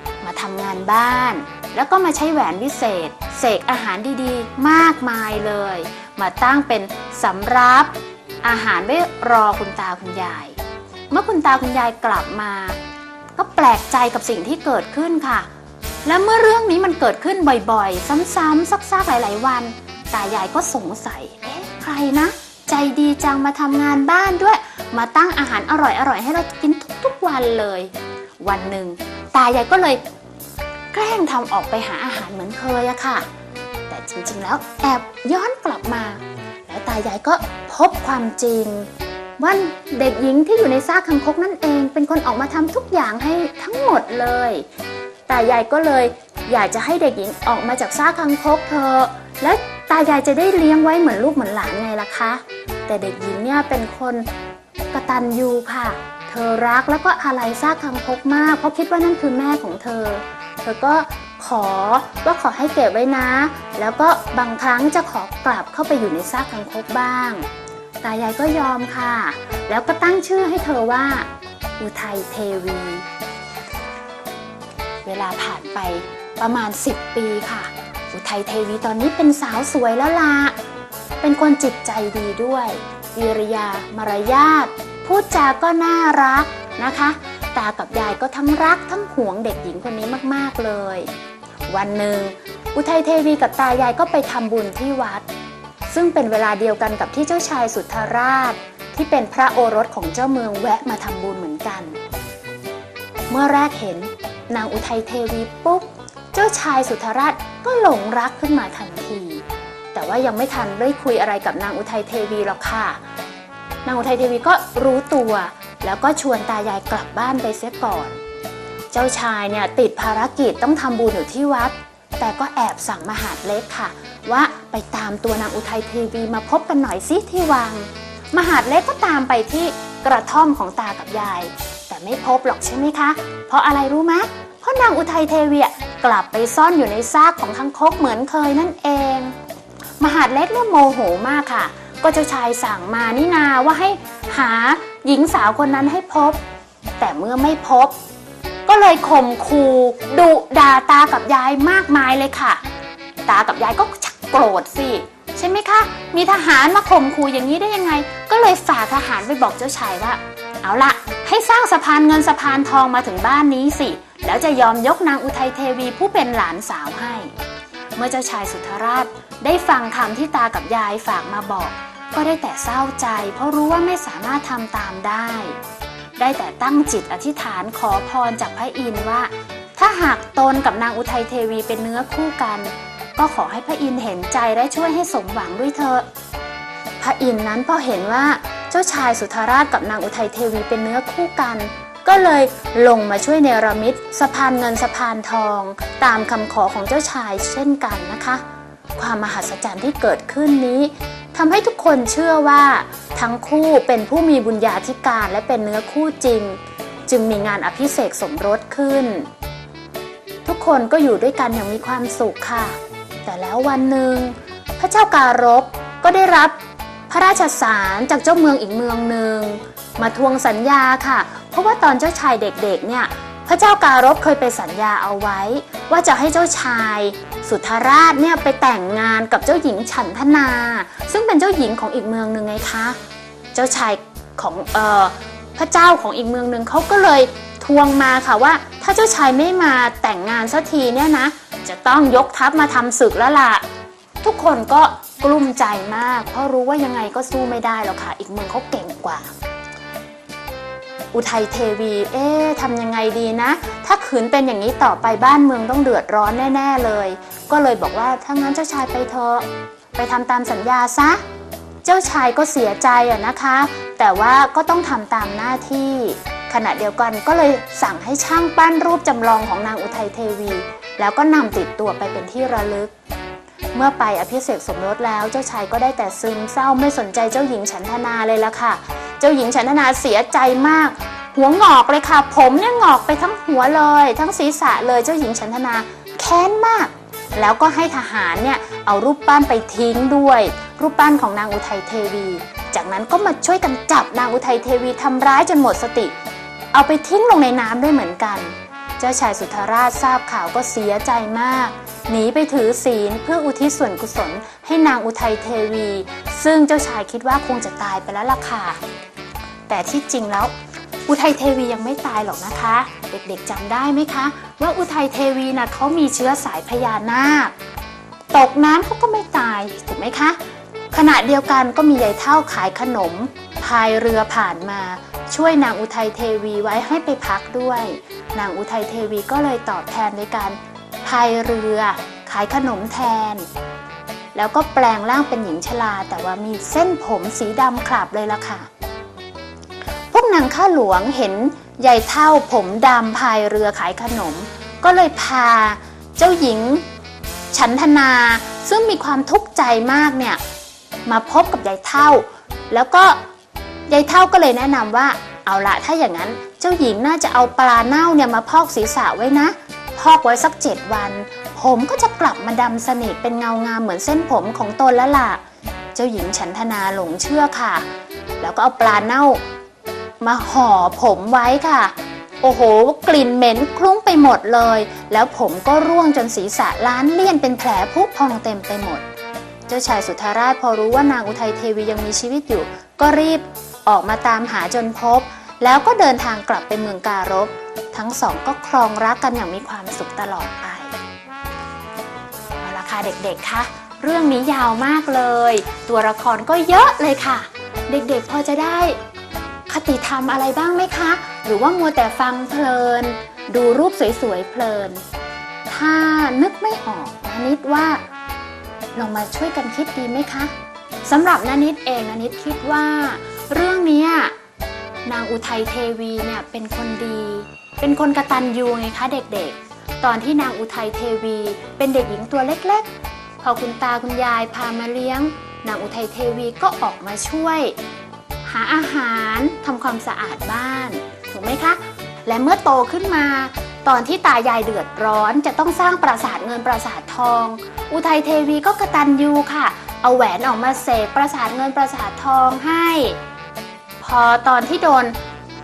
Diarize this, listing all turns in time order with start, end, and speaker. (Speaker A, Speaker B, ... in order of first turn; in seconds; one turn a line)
Speaker A: 0.2-10.6
Speaker A: 11.1-12.8
Speaker A: 13.3-15.5
Speaker A: 16.0-30.0
Speaker A: 30.9-33.2
Speaker A: 33.9-44.7
Speaker A: 45.3-54.3
Speaker A: 54.9-67.5
Speaker A: 68.0-73.0
Speaker A: 75.0-80.5
Speaker A: 81.2-91.1
Speaker A: 91.7-95.2
Speaker A: 95.8-102.0
Speaker A: 103.3-109.4
Speaker A: 109.9-113.0
Speaker A: 113.8-118.2
Speaker A: 118.9-139.3
Speaker A: 140.0-146.4
Speaker A: 147.0-147.9
Speaker A: 148.7-152.6
Speaker A: 153.2-167.3
Speaker A: 167.9-175.6
Speaker A: 176.2-186.0
Speaker A: 187.0-198.4
Speaker A: 198.9-209.3
Speaker A: 210.4-233.0
Speaker A: 233.5-243.6
Speaker A: 244.2-249.3
Speaker A: 251.1-261.2
Speaker A: 261.8-272.9
Speaker A: 273.7-296.1
Speaker A: 296.7-308.8
Speaker A: 309.7-310.5
Speaker A: 311.1-317.5
Speaker A: 318.3-320.4
Speaker A: 320.9-333.4
Speaker A: 334.3-338.7
Speaker A: 340.1-346.8
Speaker A: 347.5-350.4
Speaker A: 351.1-353.2
Speaker A: 353.9-365.4
Speaker A: 365.9-367.8
Speaker A: 368.4-369.4
Speaker A: 370.2-379.0
Speaker A: 379.7-390.9
Speaker A: 392.6-399.0
Speaker A: 399.7-405.0
Speaker A: 405.7-408.0
Speaker A: 408.9-410.5
Speaker A: 411.0-414.3
Speaker A: 415.1-422.9
Speaker A: 423.4-427.8
Speaker A: 428.4-443.2
Speaker A: 444.0-445.2